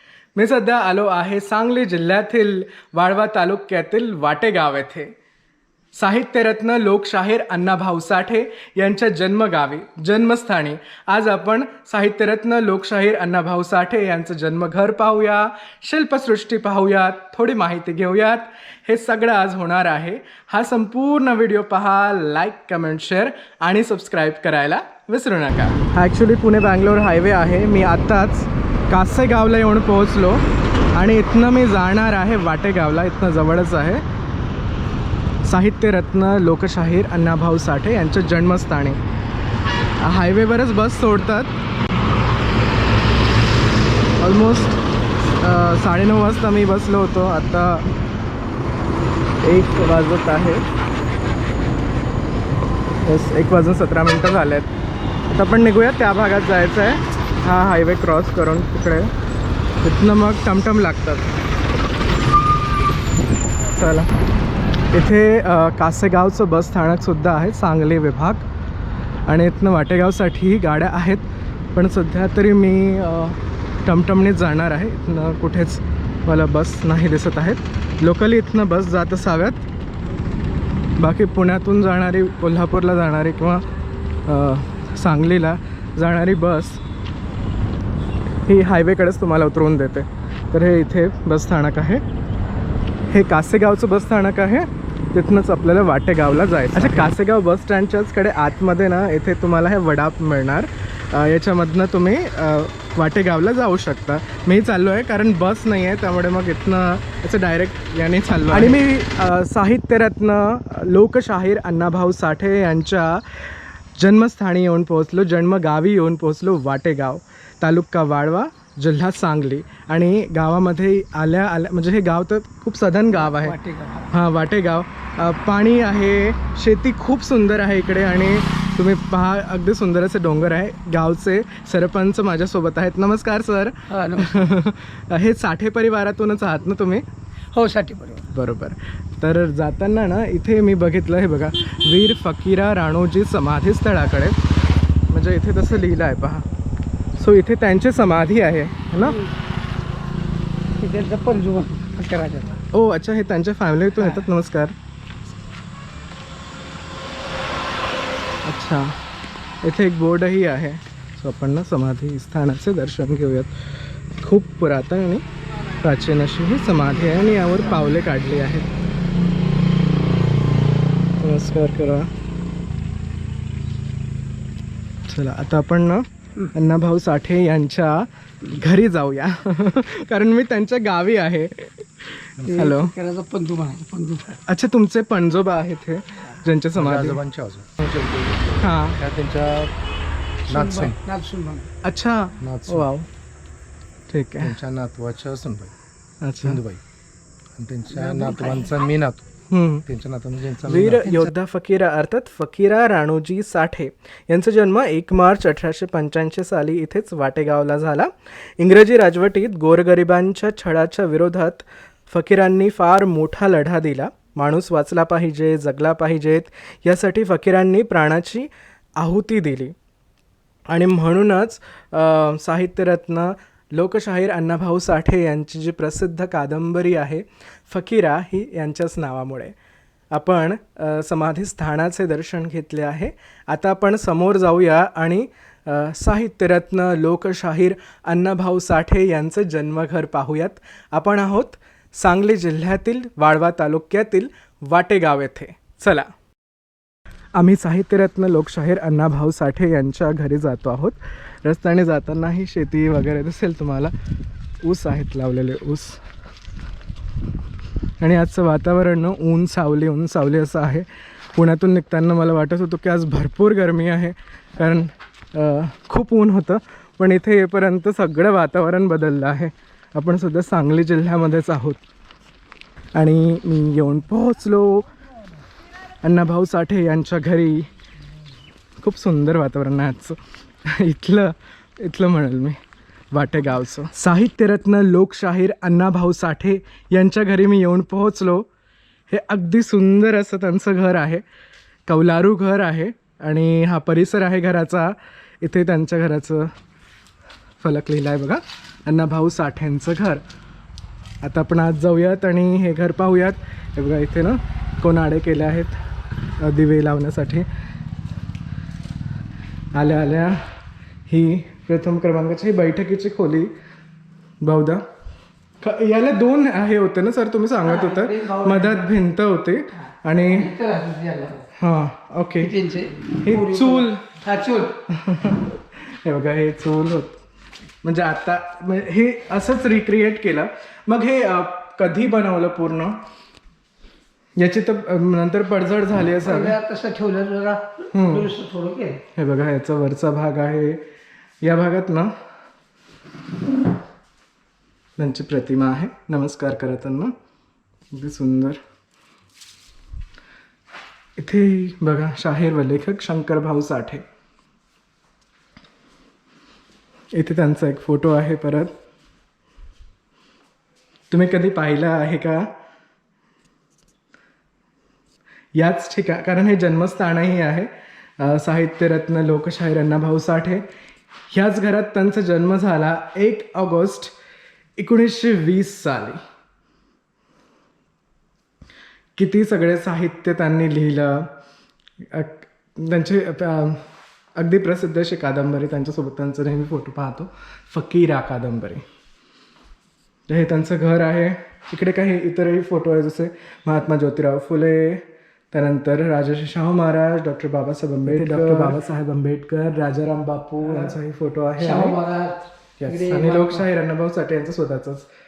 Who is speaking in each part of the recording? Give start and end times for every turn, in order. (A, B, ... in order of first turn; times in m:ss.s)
0:00.4-0:05.1 A
0:05.9-0:34.0 A
0:35.4-0:39.0 A
0:40.0-0:41.6 A
0:44.2-0:47.9 A
0:49.4-0:50.7 A
0:53.0-0:54.7 A
0:55.3-0:59.1 A
0:59.8-1:01.3 A
1:03.7-1:04.1 A
1:04.9-1:08.5 A
1:09.3-1:19.7 A
1:21.0-1:23.6 A
1:24.3-1:26.8 A
1:28.4-1:32.0 A
1:33.1-2:03.6 A
2:03.1-2:04.1 B
2:04.1-2:17.0 A
2:13.9-2:14.6 B
2:17.5-2:18.3 B
2:18.3-2:24.4 A
2:25.1-2:26.5 A
2:27.2-2:29.2 A
2:29.0-2:29.3 B
2:30.8-2:32.6 B
2:32.7-2:34.8 A
2:34.0-2:34.3 B
2:38.4-2:39.0 A
2:39.6-2:45.2 A
2:45.8-2:48.7 A
2:51.2-2:52.1 A
2:55.1-3:02.9 A
3:02.4-3:02.7 C
3:02.4-3:04.4 B
3:04.5-3:07.2 A
3:06.8-3:09.7 C
3:08.6-3:09.0 A
3:10.5-3:11.0 C
3:10.5-3:11.7 B
3:11.8-3:13.1 A
3:12.4-3:12.9 C
3:14.1-3:14.6 A
3:14.4-3:15.7 C
3:16.2-3:16.6 A
3:16.4-3:16.8 C
3:17.6-3:21.2 C
3:17.9-3:18.8 B
3:19.5-3:19.9 A
3:20.6-3:39.8 A
3:40.7-3:49.6 A
3:50.1-4:06.1 A
4:07.4-4:14.0 A
4:14.6-4:16.0 A
4:18.0-4:31.8 A
4:33.0-4:34.9 A
4:36.0-4:37.7 A
4:38.8-4:42.6 A
4:43.1-4:48.5 A
4:49.1-4:51.2 A
4:51.9-4:56.5 A
4:57.6-5:00.2 A
5:01.2-5:05.8 A
5:06.4-5:07.5 A
5:09.7-5:10.5 A
5:11.1-5:13.5 A
5:14.4-5:14.8 A
5:15.6-5:20.5 A
5:17.6-5:18.9 B
5:19.8-5:21.5 B
5:21.6-5:22.5 A
5:22.4-5:24.8 B
5:23.2-5:24.0 A
5:24.9-5:27.2 A
5:27.8-5:33.0 A
5:34.4-5:36.6 A
5:36.2-5:39.0 B
5:37.9-5:38.3 A
5:39.1-5:40.9 A
5:41.4-5:42.2 A
5:45.0-5:47.2 A
5:47.9-5:48.6 A
5:51.2-5:54.0 A
5:57.1-5:58.7 A
6:01.1-6:02.5 A
6:05.5-6:10.6 A
6:11.3-6:14.1 A
6:14.8-6:16.2 A
6:19.2-6:21.3 A
6:22.0-6:23.8 A
6:24.4-6:28.8 A
6:30.3-6:42.0 A
6:38.3-6:38.8 C
6:40.6-6:41.0 B
6:41.6-6:43.7 B
6:42.8-6:45.1 A